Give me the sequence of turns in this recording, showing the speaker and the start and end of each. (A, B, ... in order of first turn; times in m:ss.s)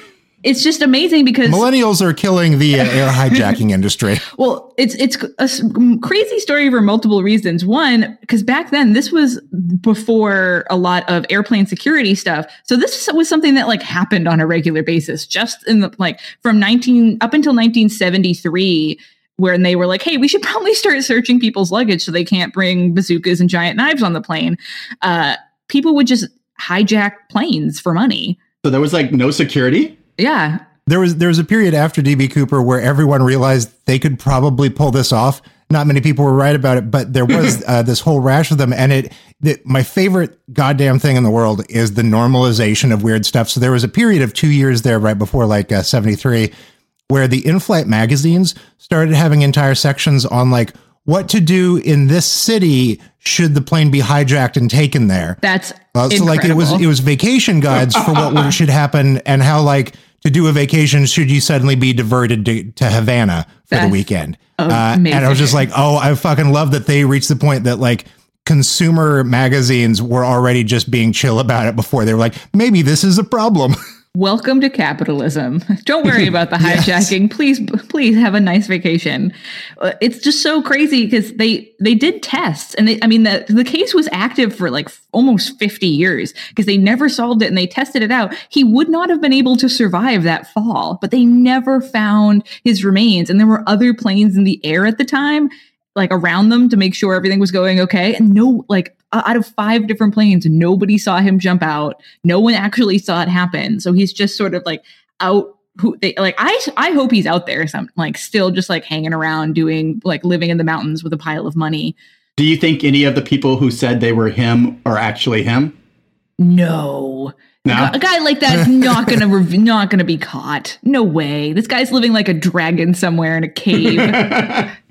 0:00.4-0:01.6 A
0:01.4-0:04.2 B
0:04.3-0:28.4 A
0:28.6-0:30.0 C
0:30.2-0:30.6 A
0:30.9-0:46.5 B
0:47.1-0:55.4 B
0:55.4-0:56.8 A
0:55.9-1:13.8 B
1:03.7-1:04.0 A
1:04.6-1:05.6 A
1:14.1-1:52.0 A
1:16.6-1:17.1 B
1:52.4-1:55.7 C
1:56.4-2:04.6 A
1:57.6-1:58.0 C
2:03.8-2:04.7 C